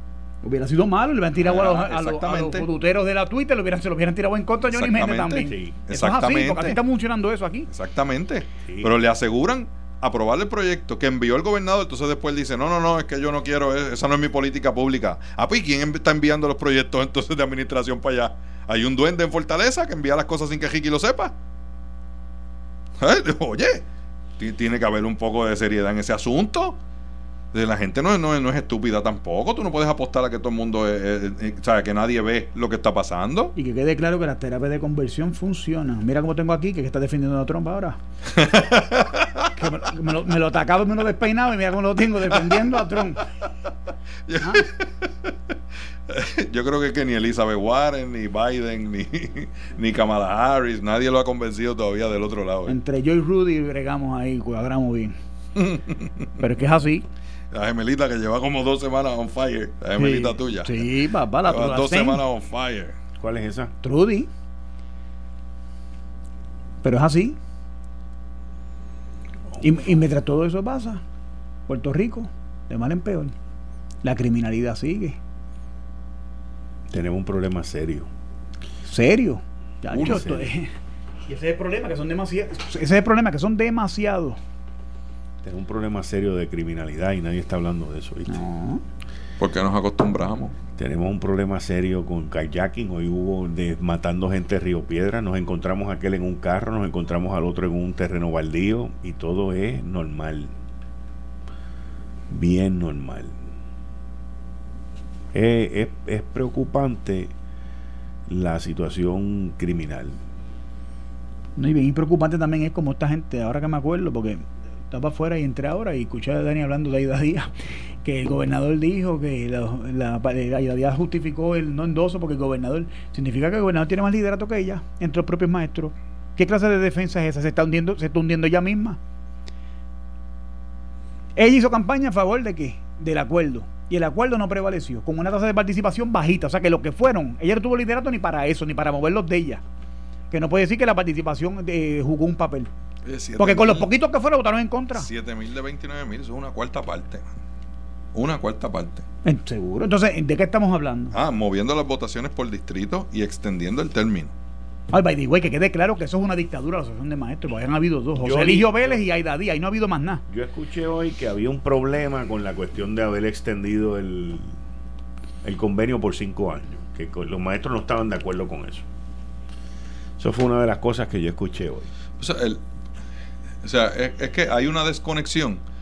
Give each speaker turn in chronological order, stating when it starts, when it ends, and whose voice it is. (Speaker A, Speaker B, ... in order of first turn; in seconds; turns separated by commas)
Speaker A: 0.4-7.7, Speaker B: 1.4-2.7, Speaker B: 4.7-6.8, Speaker C: 5.4-5.8, Speaker B: 7.7-21.3, Speaker C: 8.6-8.9, Speaker B: 23.0-23.8, Speaker B: 24.4-26.8, Speaker B: 27.5-33.5, Speaker A: 33.5-38.0, Speaker B: 38.3-39.6, Speaker A: 39.6-43.2, Speaker B: 42.3-42.8, Speaker B: 44.3-45.5, Speaker B: 46.1-52.8, Speaker A: 52.7-55.1, Speaker B: 55.5-56.3, Speaker A: 56.4-57.0, Speaker B: 57.5-63.0, Speaker A: 60.0-62.2, Speaker C: 63.2-63.7, Speaker A: 63.8-64.3, Speaker A: 66.8-67.4, Speaker A: 69.6-71.0, Speaker A: 71.7-73.3, Speaker A: 74.0-75.2, Speaker C: 76.9-78.1, Speaker A: 78.8-80.7, Speaker C: 79.9-80.5, Speaker A: 81.3-84.4, Speaker C: 85.4-88.4, Speaker A: 88.3-88.8, Speaker B: 89.4-90.5, Speaker C: 90.8-100.5, Speaker C: 102.3-103.4, Speaker C: 105.3-107.3, Speaker C: 108.3-110.2, Speaker A: 111.5-117.5, Speaker A: 118.0-129.0, Speaker A: 131.3-139.6, Speaker A: 140.3-142.7, Speaker B: 143.0-143.9, Speaker A: 143.4-145.1, Speaker B: 144.9-147.3, Speaker B: 148.1-149.0, Speaker A: 149.2-151.1, Speaker B: 151.1-154.3, Speaker A: 154.9-160.2, Speaker C: 158.2-159.0, Speaker C: 160.3-164.5, Speaker C: 165.4-168.9, Speaker C: 170.2-171.9, Speaker B: 172.2-172.6, Speaker B: 173.6-175.6